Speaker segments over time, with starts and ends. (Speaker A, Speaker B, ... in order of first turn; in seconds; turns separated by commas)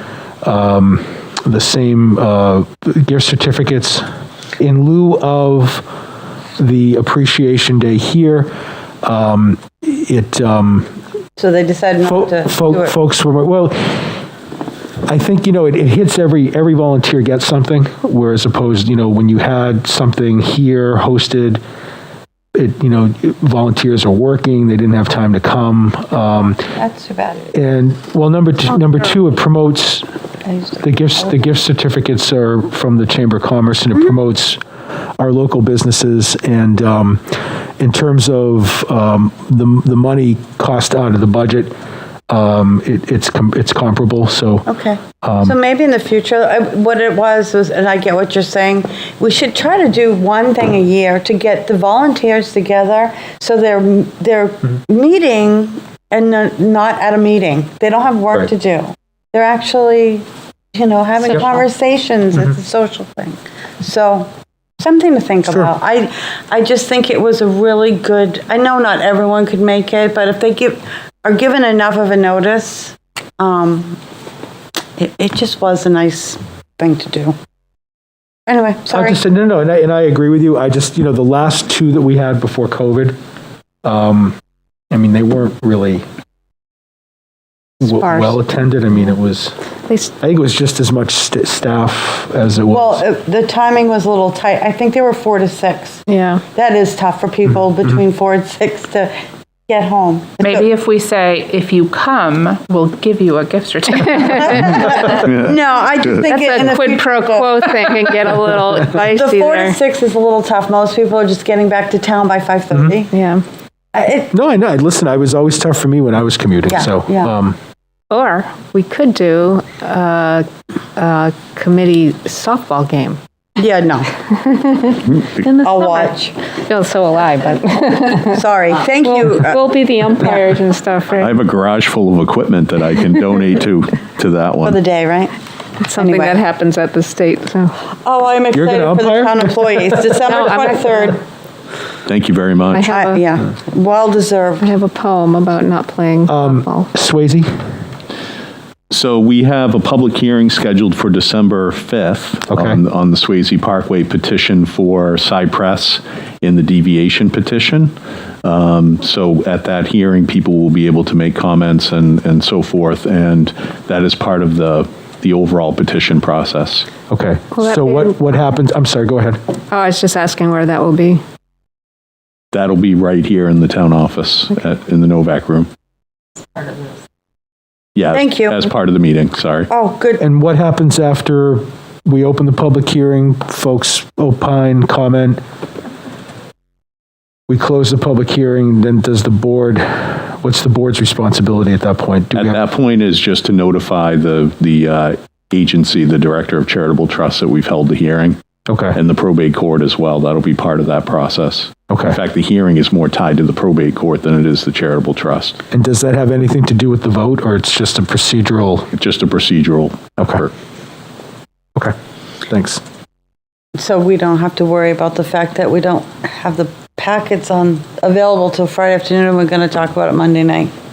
Speaker A: 0.4-4.1, Speaker A: 4.6-5.9, Speaker A: 6.6-10.9, Speaker B: 11.4-13.0, Speaker A: 12.1-14.1, Speaker A: 15.1-21.6, Speaker A: 22.5-26.6, Speaker B: 26.6-27.5, Speaker A: 27.5-30.1, Speaker B: 30.5-31.2, Speaker A: 30.8-34.6, Speaker A: 35.2-41.7, Speaker A: 42.3-44.7, Speaker B: 44.7-64.3, Speaker A: 45.2-45.5, Speaker B: 64.8-74.0, Speaker B: 75.0-77.3, Speaker B: 78.5-79.2, Speaker A: 78.9-83.2, Speaker A: 83.8-84.4, Speaker A: 84.9-86.0, Speaker A: 87.8-89.6, Speaker C: 87.9-88.4, Speaker A: 90.2-93.0, Speaker B: 92.7-99.1, Speaker C: 96.1-96.4, Speaker B: 99.7-100.7, Speaker D: 100.4-105.0, Speaker C: 104.1-105.0, Speaker B: 104.5-107.5, Speaker E: 105.1-105.5, Speaker C: 106.2-109.8, Speaker B: 108.8-113.1, Speaker C: 113.1-113.4, Speaker B: 113.9-114.3, Speaker A: 114.3-117.6, Speaker B: 116.7-117.3, Speaker C: 118.1-123.2, Speaker B: 123.6-124.1, Speaker C: 124.4-126.1, Speaker B: 125.6-126.3, Speaker C: 126.7-128.4, Speaker B: 128.2-129.7, Speaker C: 129.0-131.3, Speaker E: 131.2-134.8, Speaker B: 134.6-135.3, Speaker C: 135.8-137.8, Speaker B: 136.0-136.4, Speaker B: 137.9-141.2, Speaker A: 138.5-140.2, Speaker E: 142.1-142.9, Speaker C: 142.7-143.2, Speaker B: 142.8-144.7, Speaker C: 144.6-146.9, Speaker A: 146.3-147.5, Speaker E: 148.9-166.9, Speaker A: 152.5-152.8, Speaker A: 167.1-169.4, Speaker C: 167.6-168.1, Speaker C: 169.7-171.2, Speaker E: 172.5-175.7, Speaker E: 177.9-179.7, Speaker B: 178.1-178.6, Speaker B: 179.7-180.2, Speaker A: 180.2-185.4, Speaker A: 187.5-192.6, Speaker E: 192.3-198.4, Speaker A: 198.7-199.0, Speaker E: 198.9-205.6, Speaker A: 201.9-202.2, Speaker A: 205.7-208.9, Speaker E: 208.9-210.5, Speaker A: 212.5-212.8, Speaker B: 213.8-220.7